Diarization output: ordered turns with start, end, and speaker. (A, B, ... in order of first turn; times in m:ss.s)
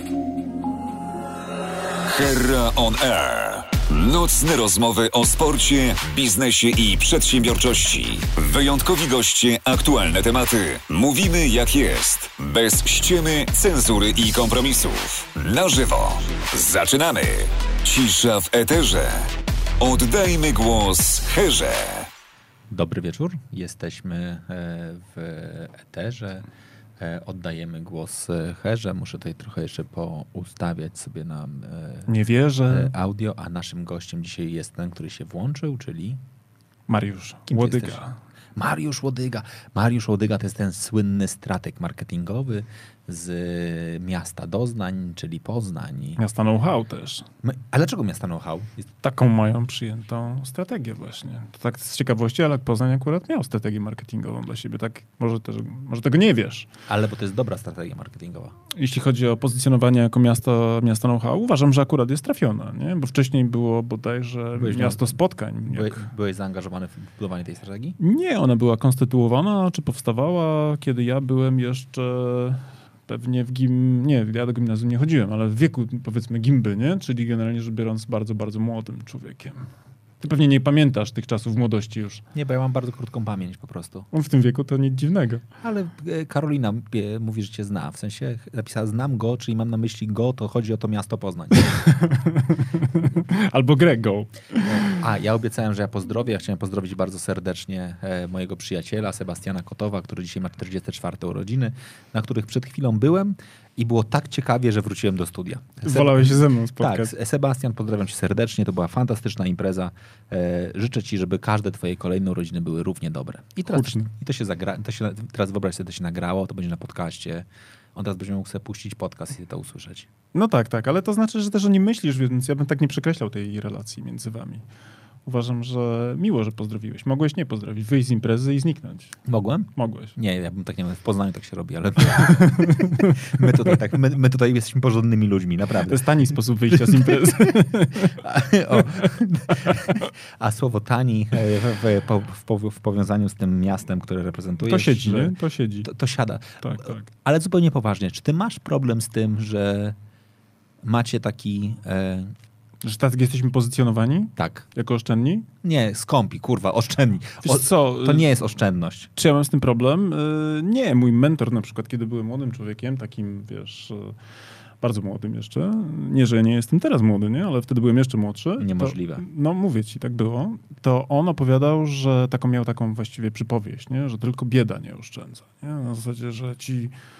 0:02.1-0:22.1 A
0:22.7-0:26.5 B
0:27.0-0:32.1 B
0:32.1-0:32.9 C
0:32.7-0:36.2 B
0:36.9-0:38.2 C
0:37.5-0:38.0 B
0:38.6-0:46.2 B
0:46.2-0:47.3 C
0:47.4-0:48.9 B
0:49.0-0:56.7 C
0:56.9-0:58.5 B
0:58.7-1:06.1 C
1:04.6-1:05.1 B
1:05.7-1:08.0 B
1:08.0-1:19.6 C
1:20.2-1:22.2 C
1:22.3-1:24.1 B
1:24.1-1:25.4 C
1:25.6-1:31.8 B
1:31.8-1:35.0 C
1:34.6-2:00.1 B
1:45.8-1:47.1 C
1:53.7-1:54.1 C
2:00.3-2:04.6 C
2:05.3-2:09.2 C
2:09.3-2:16.1 B
2:09.8-2:10.2 C
2:12.2-2:13.5 C
2:15.9-2:18.2 C
2:16.7-2:17.5 B
2:18.1-2:30.0 B
2:18.8-2:19.1 C
2:24.6-2:25.9 C
2:26.6-2:27.1 C
2:30.8-2:32.4 B
2:32.8-2:35.5 C
2:34.4-2:34.6 B
2:35.6-2:39.1 B
2:37.4-2:38.3 C
2:39.2-2:44.2 C
2:44.8-2:56.9 C
2:48.6-2:49.2 B